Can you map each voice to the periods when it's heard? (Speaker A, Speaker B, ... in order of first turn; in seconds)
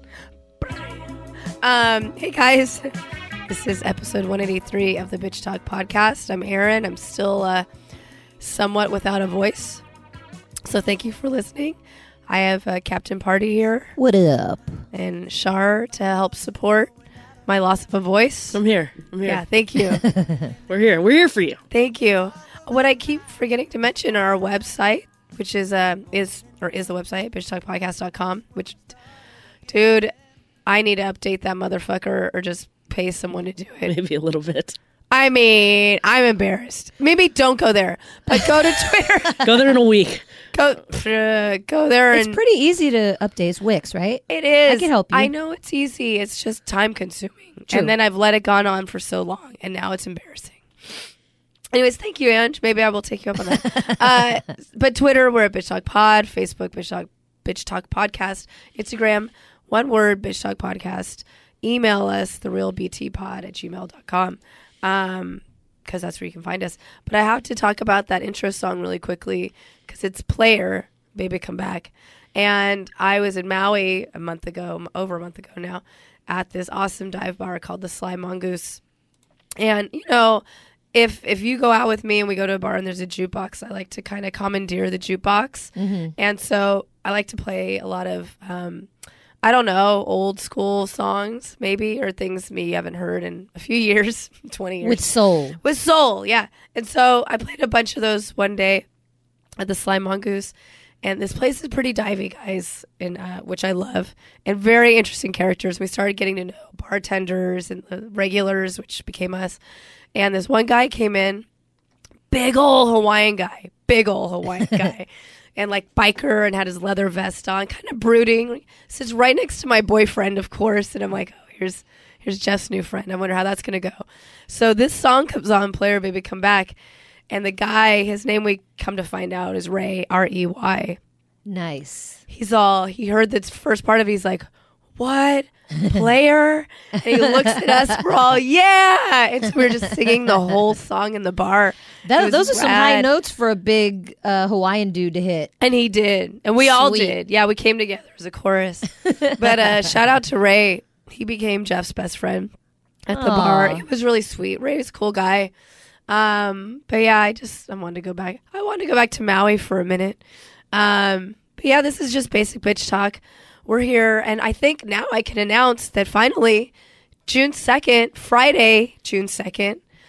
Speaker A: 0.6-1.1, 1.6-2.9, 3.5-7.7, 8.4-9.8, 10.7-13.9, 14.9-16.9, 17.4-18.6, 19.2-20.1, 21.7-28.9, 29.7-30.1, 30.6-33.9, 35.1-39.5, 40.5-42.4, 44.3-50.6, 51.7-78.8, 79.6-88.9, 89.4-98.8, 99.6-109.6, 110.1-111.4, 112.3-126.8, 127.3-131.0, 132.3-143.1, 145.6-152.5, 153.1-155.5, 156.1-160.2, 160.7-166.7, 167.3-169.8
Speaker B: 13.9-14.8, 20.0-20.5, 42.1-45.3, 85.8-86.1, 94.8-95.6, 131.4-132.2, 137.2-137.7, 142.0-145.5, 146.6-147.1, 149.0-149.7, 153.1-153.8
Speaker C: 18.5-19.4, 20.7-21.6, 33.9-34.8, 39.4-40.2